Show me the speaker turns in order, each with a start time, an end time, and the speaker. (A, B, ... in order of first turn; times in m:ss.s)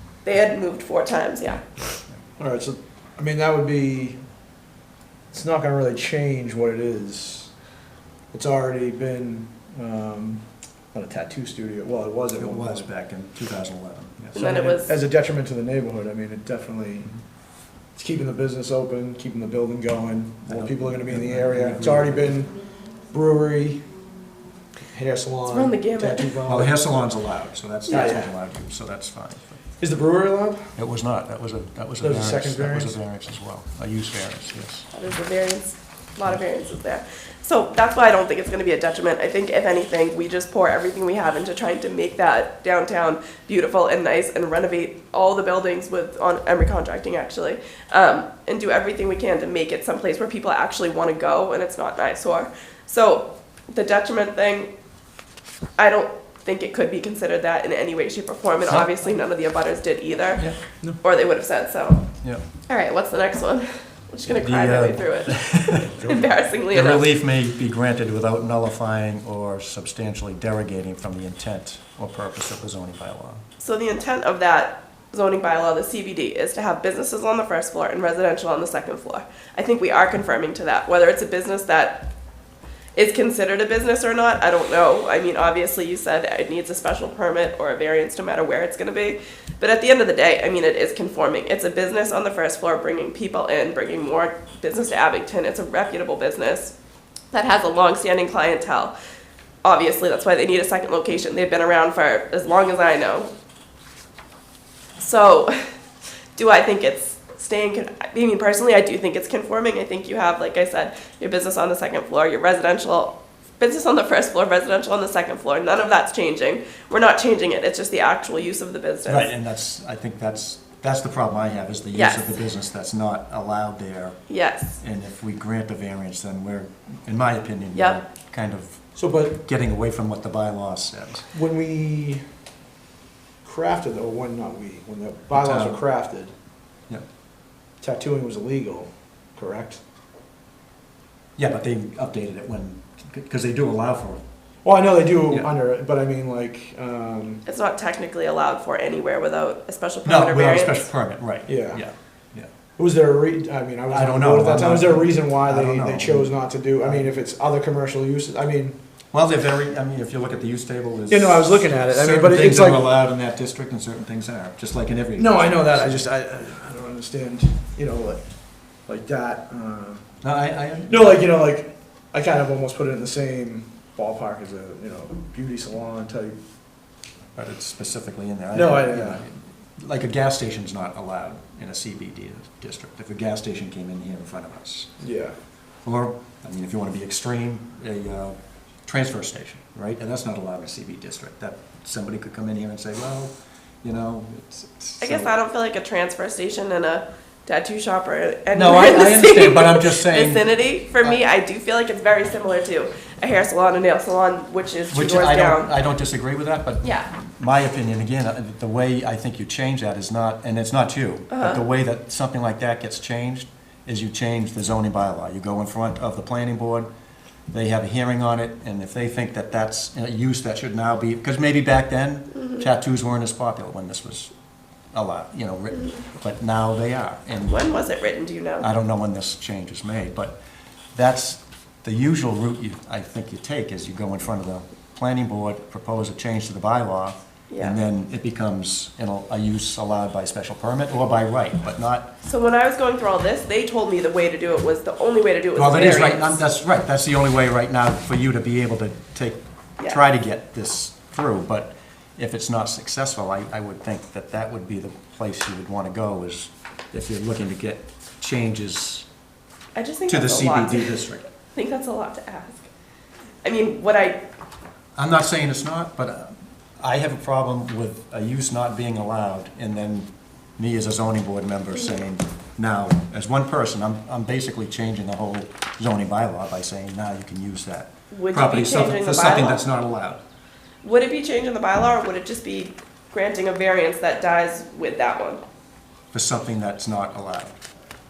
0:00.2-0:01.8 A
0:01.8-0:02.1 B
0:02.4-0:04.2 C
0:05.3-0:07.5 C
0:08.3-0:12.9 C
0:12.4-0:14.4 B
0:14.3-0:15.0 A
0:14.3-0:17.1 C
0:18.0-0:22.5 C
0:20.4-0:22.3 B
0:23.1-0:23.9 C
0:24.9-0:26.8 C
0:25.5-0:26.4 A
0:26.5-0:29.6 B
0:27.9-0:28.3 C
0:27.9-0:28.2 A
0:29.8-0:30.7 C
0:30.8-0:34.9 B
0:32.0-0:33.0 C
0:34.9-0:54.7 A
0:55.8-1:07.1 A
1:04.4-1:06.1 B
1:06.7-1:13.4 B
1:13.6-1:22.1 A
1:22.9-1:36.7 A
1:37.3-1:38.9 A
1:39.6-1:43.3 A
1:45.0-1:45.5 A
1:46.4-1:59.4 A
1:59.0-2:04.2 B
2:01.9-2:02.4 A
2:04.3-2:04.8 A
2:04.8-2:11.3 B
2:07.7-2:08.0 A
2:09.0-2:09.4 C
2:11.3-2:12.2 C
2:13.4-2:16.3 C
2:15.3-2:15.8 B
2:17.8-2:19.8 C
2:21.4-2:24.2 B
2:24.6-2:27.4 C
2:27.4-2:30.9 A
2:30.0-2:32.5 B
2:31.5-2:31.8 C
2:32.8-2:38.8 C
2:33.9-2:37.1 B
2:39.1-2:46.0 B
2:41.1-2:42.9 C
2:45.1-2:48.2 C
2:48.9-2:50.2 C
2:50.2-2:51.2 B
2:50.9-2:56.4 C
2:57.3-3:04.9 B
2:58.5-2:59.2 C
3:05.0-3:05.3 C
3:05.8-3:13.3 B
3:13.8-3:15.3 B
3:15.0-3:25.7 A
3:18.5-3:21.2 B
3:24.9-3:36.9 B
3:26.8-3:27.1 A
3:31.3-3:31.6 A
3:37.5-3:44.3 B
3:42.3-3:42.7 A
3:44.9-3:47.6 B
3:47.5-3:48.7 A
3:48.6-3:50.4 B
3:50.9-4:02.1 B
3:57.5-3:57.8 A
4:02.2-4:06.4 A
4:05.6-4:19.0 B
4:19.8-4:22.7 A
4:20.1-4:21.2 B
4:23.4-4:24.2 A
4:25.0-4:40.2 B
4:38.1-4:39.6 A
4:40.8-4:45.4 A
4:46.1-4:47.6 B